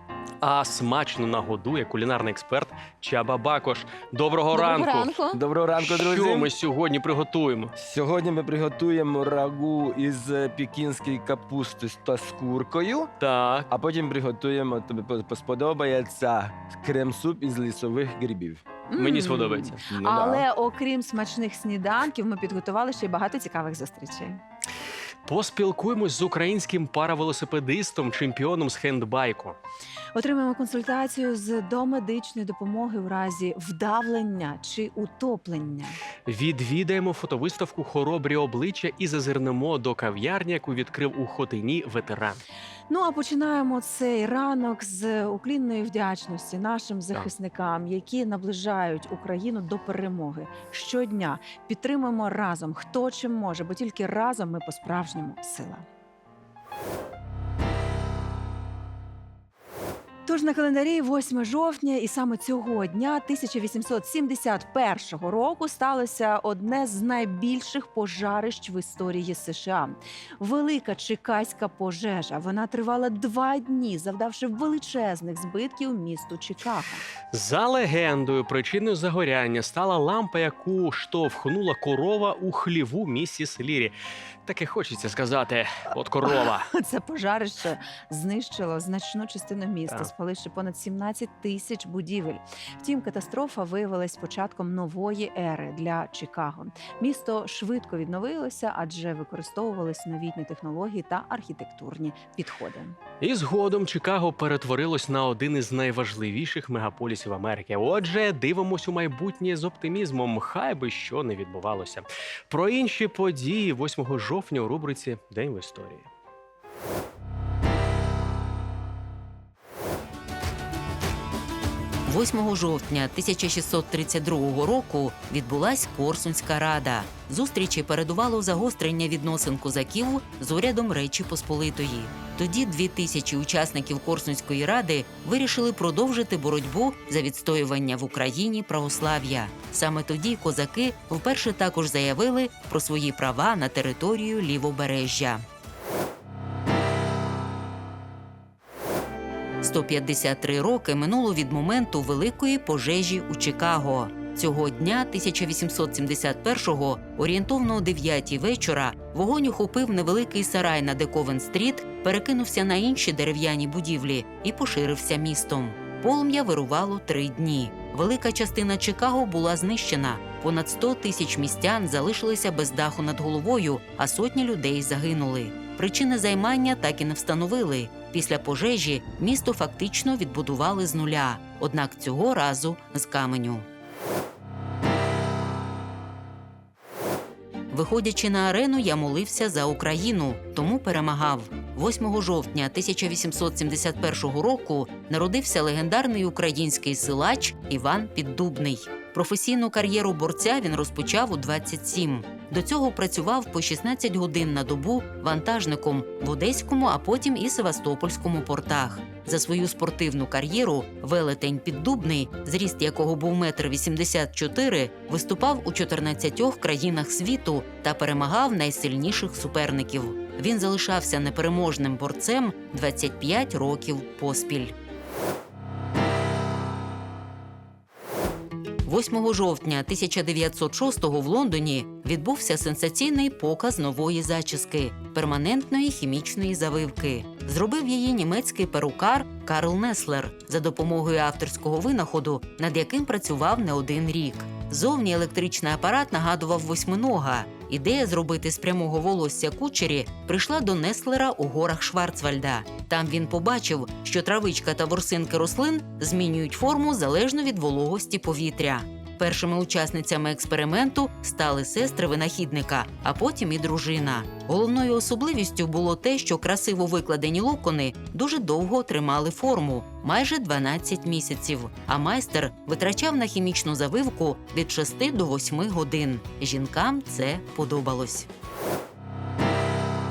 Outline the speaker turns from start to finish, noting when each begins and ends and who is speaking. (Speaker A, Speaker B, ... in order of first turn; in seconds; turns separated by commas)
Speaker A: 0.4-5.1, Speaker B: 4.5-5.4, Speaker C: 5.3-6.5, Speaker A: 5.8-7.7, Speaker C: 7.8-13.1, Speaker A: 13.2-13.7, Speaker C: 13.7-18.6, Speaker B: 18.9-24.4, Speaker A: 18.9-19.8, Speaker C: 19.8-20.4, Speaker A: 25.3-29.6, Speaker B: 30.1-36.0, Speaker A: 36.2-42.4, Speaker B: 42.9-55.8, Speaker B: 60.2-77.0, Speaker A: 77.3-83.9, Speaker A: 84.5-86.7, Speaker B: 86.2-103.0, Speaker A: 103.2-116.1, Speaker D: 122.0-145.4, Speaker D: 149.6-183.6, Speaker D: 187.7-224.7, Speaker D: 228.8-278.3